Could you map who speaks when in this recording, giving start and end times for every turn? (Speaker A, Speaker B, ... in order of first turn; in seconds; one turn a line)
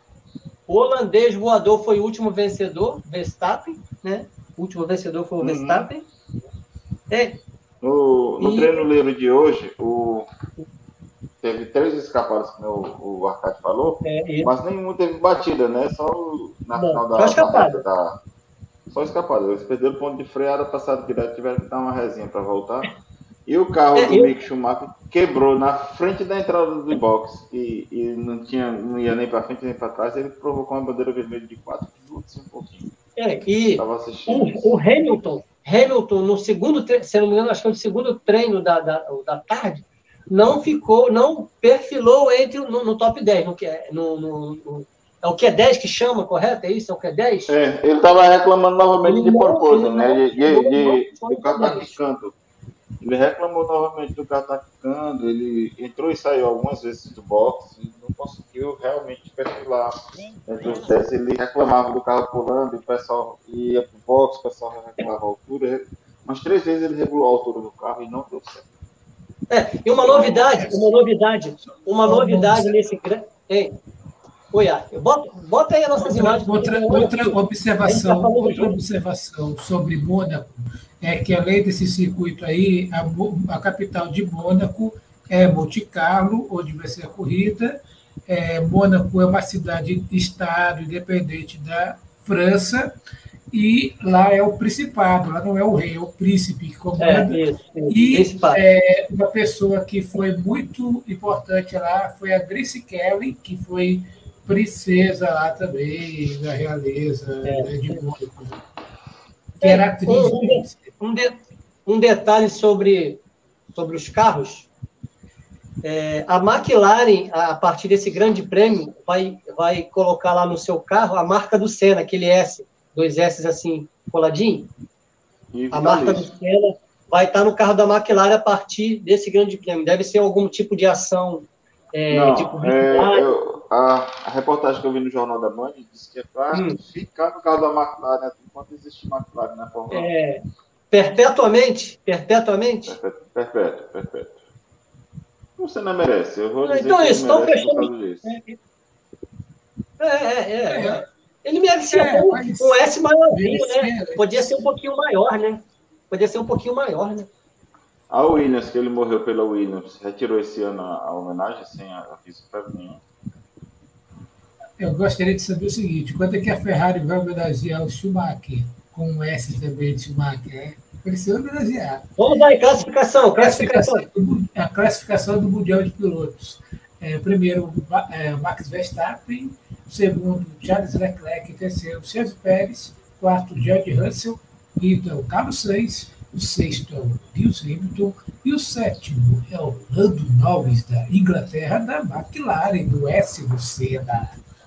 Speaker A: 0.7-6.0
Speaker B: 5.4-5.9
Speaker A: 7.1-7.4
Speaker B: 7.8-10.3
Speaker A: 8.4-8.9
Speaker B: 11.4-18.2
Speaker A: 14.0-14.5
Speaker A: 16.8-17.8
Speaker B: 18.9-22.9
Speaker B: 23.5-32.9
Speaker A: 23.9-24.3
Speaker A: 33.2-47.5
Speaker B: 33.7-34.8
Speaker B: 47.5-52.4
Speaker A: 49.0-52.0
Speaker B: 53.0-60.0
Speaker B: 60.5-68.7
Speaker A: 69.5-73.8
Speaker B: 70.0-70.8
Speaker C: 72.0-72.7
Speaker A: 74.5-78.8
Speaker C: 76.0-93.0
Speaker C: 93.5-108.6
Speaker A: 97.0-98.6
Speaker A: 107.4-108.0
Speaker C: 109.6-110.9
Speaker A: 109.6-111.3
Speaker A: 111.9-113.2
Speaker A: 113.8-114.7
Speaker A: 115.8-124.7
Speaker B: 125.5-126.3
Speaker A: 125.7-133.3
Speaker B: 132.1-140.1
Speaker A: 136.5-136.8
Speaker A: 139.9-142.9
Speaker B: 142.9-144.4
Speaker B: 145.6-148.4
Speaker A: 146.6-148.6
Speaker A: 150.0-157.3
Speaker C: 150.7-151.1
Speaker C: 151.9-154.6
Speaker B: 158.1-163.0
Speaker C: 164.8-172.1
Speaker A: 172.2-174.1
Speaker C: 173.4-194.4